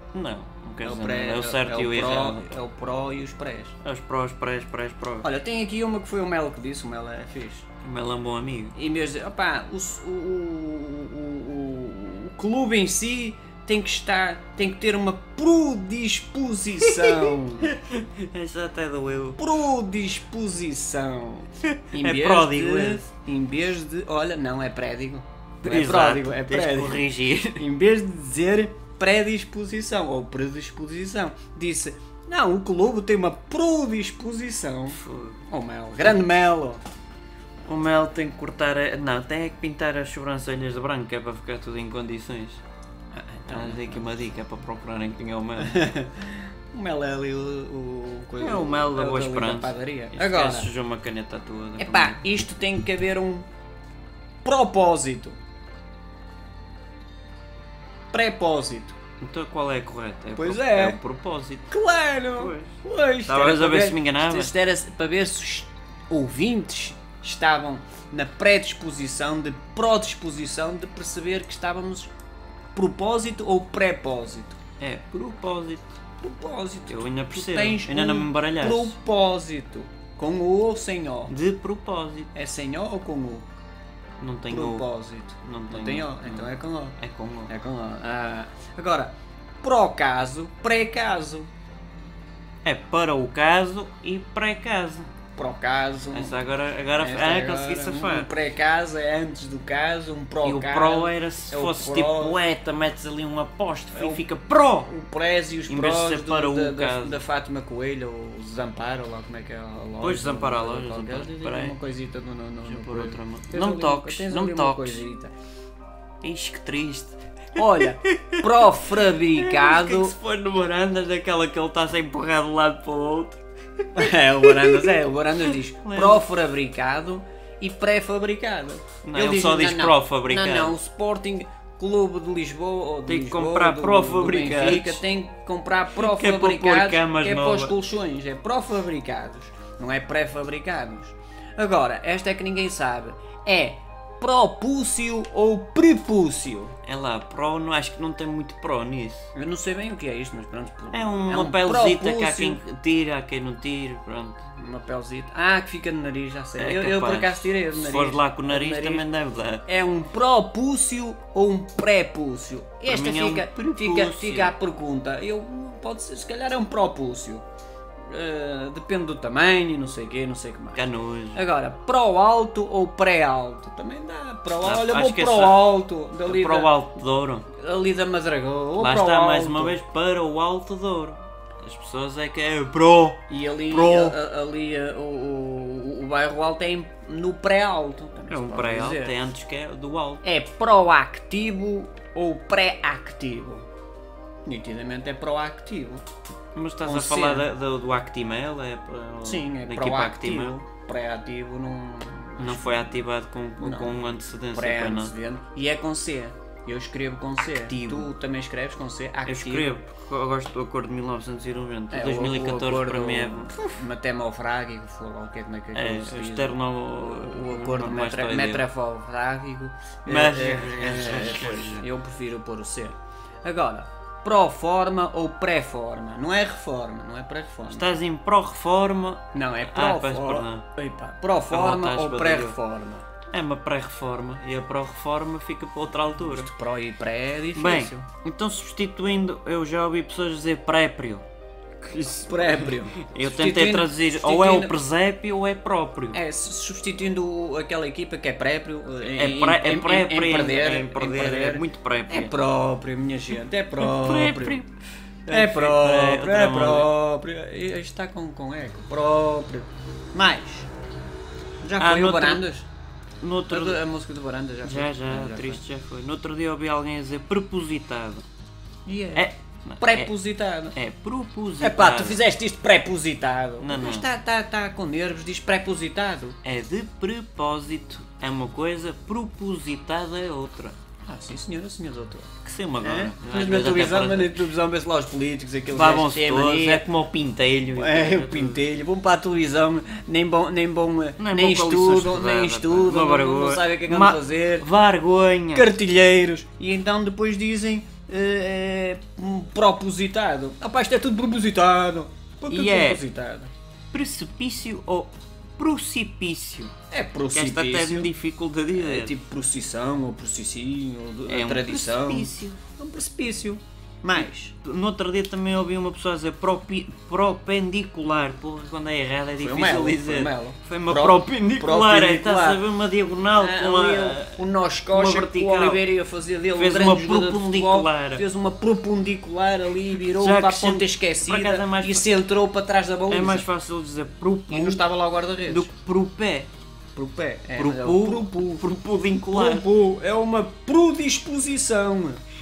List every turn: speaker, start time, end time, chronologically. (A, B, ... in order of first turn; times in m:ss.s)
0:00.1-0:02.6 A
0:00.8-0:03.7 B
0:03.8-0:05.3 A
0:05.2-0:07.6 B
0:07.8-0:08.8 A
0:08.7-0:17.7 B
0:16.8-0:19.4 A
0:19.4-0:27.0 B
0:21.7-0:23.0 A
0:25.6-0:27.6 A
0:27.6-0:36.8 B
0:34.9-0:35.4 A
0:37.6-0:42.6 A
0:43.1-0:44.3 B
0:43.5-0:45.9 A
0:45.6-0:50.7 B
0:48.4-0:52.2 A
0:51.8-0:53.5 B
0:54.4-0:55.4 B
0:58.1-0:58.9 B
0:59.2-1:01.7 A
1:00.3-1:01.0 B
1:01.7-1:12.1 B
1:02.4-1:02.7 A
1:03.2-1:04.5 A
1:12.7-1:14.6 B
1:14.8-1:16.0 A
1:16.2-1:21.3 B
1:16.9-1:19.0 A
1:21.3-1:22.3 A
1:22.3-1:23.4 B
1:24.2-1:24.8 A
1:24.5-1:31.5 B
1:25.4-1:27.5 A
1:32.6-1:35.1 A
1:35.4-1:36.4 B
1:36.1-1:38.3 A
1:37.0-1:42.4 B
1:40.4-1:44.9 A
1:43.9-1:44.2 B
1:44.8-1:55.3 B
1:45.7-1:47.2 A
1:50.0-1:51.8 A
1:52.6-1:55.0 A
1:56.2-2:06.3 A
1:57.6-2:00.1 B
2:04.0-2:26.7 B
2:09.0-2:10.8 A
2:13.1-2:15.0 A
2:15.9-2:17.7 A
2:26.8-2:29.3 A
2:29.3-2:32.6 B
2:30.9-2:34.4 A
2:34.5-2:39.0 B
2:36.6-2:39.6 A
2:39.6-2:47.4 B
2:42.9-2:44.5 A
2:48.1-2:50.8 B
2:50.7-2:51.4 A
2:51.3-2:56.7 B
2:54.6-2:57.5 A
2:57.5-2:59.8 B
2:58.8-3:04.2 A
3:03.3-3:09.2 B
3:08.3-3:10.2 A
3:10.2-3:13.7 B
3:14.4-3:16.0 B
3:16.5-3:20.6 A
3:16.8-3:17.4 B
3:19.2-3:23.0 B
3:22.4-3:25.1 A
3:23.6-3:29.7 B
3:27.7-3:28.1 A
3:29.2-3:33.7 A
3:31.9-3:48.0 B
3:35.7-3:38.6 A
3:40.0-3:41.8 A
3:47.7-3:50.6 A
3:49.3-3:53.1 B
3:51.5-3:52.6 A
3:53.3-3:56.5 A
3:56.2-3:58.1 B
3:57.5-4:01.2 A
4:01.8-4:06.2 A
4:02.1-4:04.8 B
4:06.1-4:14.6 B
4:09.1-4:12.3 A
4:13.8-4:14.7 A
4:15.3-4:16.9 A
4:15.3-4:20.7 B
4:21.6-4:22.7 B
4:21.8-4:22.4 A
4:23.2-4:23.8 A
4:23.5-4:25.6 B
4:24.6-4:28.2 A
4:28.8-4:30.8 B
4:29.1-4:30.1 A
4:30.7-4:32.2 A
4:31.6-4:36.4 B
4:33.6-4:34.1 A
4:36.4-4:40.8 A
4:41.1-4:42.3 B
4:42.4-4:44.4 A
4:42.8-4:46.8 B
4:45.7-4:48.6 A
4:47.7-4:54.7 B
4:51.2-4:55.7 A
4:55.5-5:03.5 B
5:02.5-5:03.0 A
5:03.9-5:06.7 A
5:06.9-5:08.1 B
5:07.3-5:09.2 A
5:08.7-5:14.5 B
5:11.3-5:12.6 A
5:14.2-5:25.8 A
5:19.4-5:22.6 B
5:23.3-5:33.5 B
5:26.5-5:28.2 A
5:30.0-5:32.1 A
5:33.1-5:34.8 A
5:34.5-5:35.7 B
5:35.5-5:36.5 A
5:36.9-5:38.6 B
5:37.5-5:39.7 A
5:39.3-5:42.2 B